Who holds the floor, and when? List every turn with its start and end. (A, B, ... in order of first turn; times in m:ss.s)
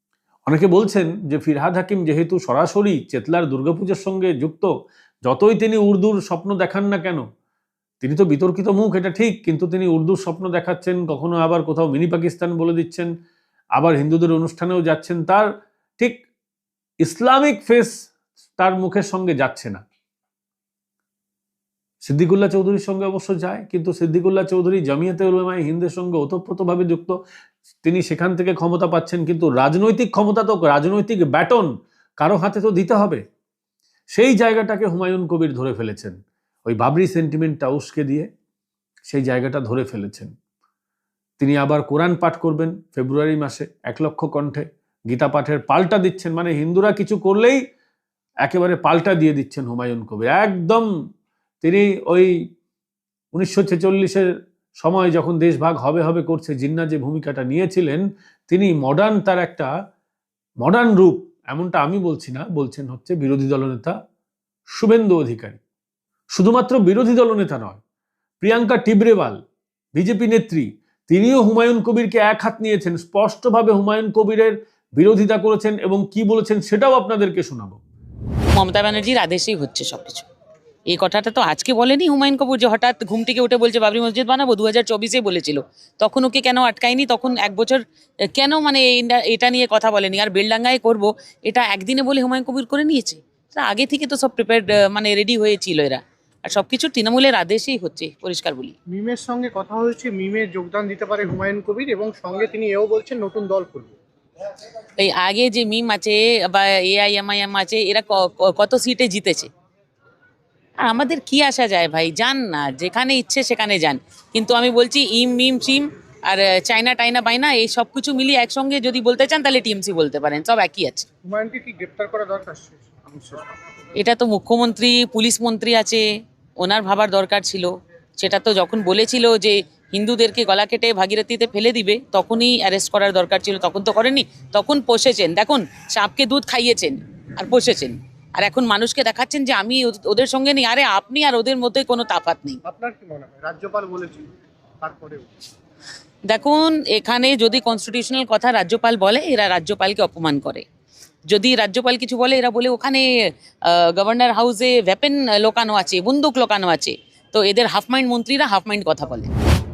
0:00.5-0:04.7 A
0:05.2-0:07.2 A
0:08.0-0:13.1 A
0:13.8-0:15.5 A
0:17.0-0:17.9 A
0:18.6-0:19.8 A
0:22.0-0:27.1 A
0:27.8-0:33.2 A
0:34.1-0:38.3 A
0:39.1-0:40.3 A
0:41.4-0:47.6 A
0:48.4-0:50.9 A
0:51.6-0:52.3 A
0:53.3-0:54.3 A
0:54.8-0:59.7 A
1:00.6-1:04.0 A
1:04.8-1:05.6 A
1:06.4-1:07.8 A
1:08.4-1:09.4 A
1:10.0-1:17.8 A
1:18.5-1:20.3 B
1:20.9-1:38.7 B
1:38.9-1:44.0 C
1:45.0-1:49.5 B
1:50.8-2:01.1 B
2:01.2-2:03.5 C
2:04.0-2:06.0 B
2:06.6-2:22.6 B
2:22.6-2:24.2 C
2:24.8-2:25.3 C
2:26.3-2:30.6 B
2:31.3-2:33.1 B
2:33.7-2:39.3 B